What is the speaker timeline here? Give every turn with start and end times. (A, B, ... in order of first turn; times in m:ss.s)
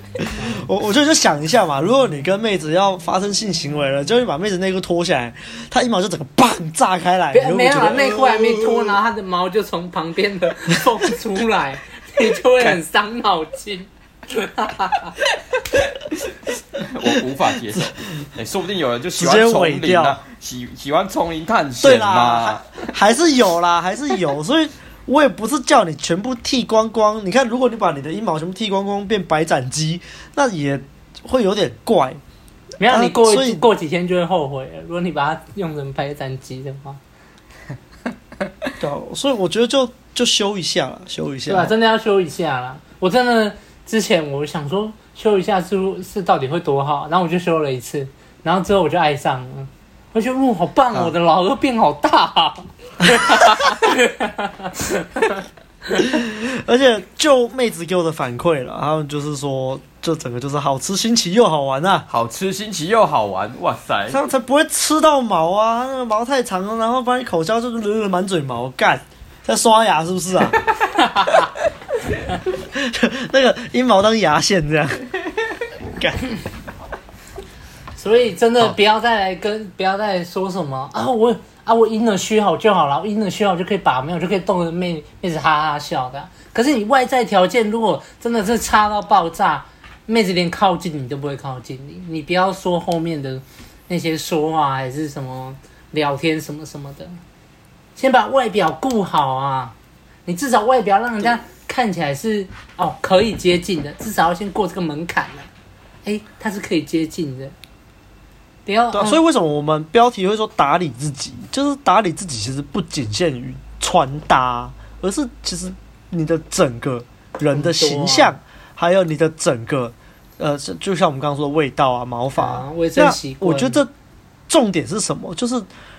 0:00.2-0:08.9 A
0:07.3-0:15.1 B
0:15.7-0:22.9 C
0:19.2-0:20.2 A
0:21.8-0:32.2 A
0:32.8-0:37.0 B
0:32.9-0:33.6 A
0:38.8-0:41.7 A
0:41.5-0:54.8 B
0:56.0-1:02.1 A
1:02.1-1:04.2 C
1:04.1-1:10.6 A
1:12.7-1:15.0 A
1:16.0-1:16.2 A
1:18.0-1:37.2 B
1:38.0-1:39.8 B
1:40.3-1:45.5 B
1:46.0-1:47.5 B
1:48.6-1:49.2 B
1:48.9-2:03.9 A
1:57.5-1:58.4 B
2:02.4-2:03.8 B
2:04.5-2:05.7 A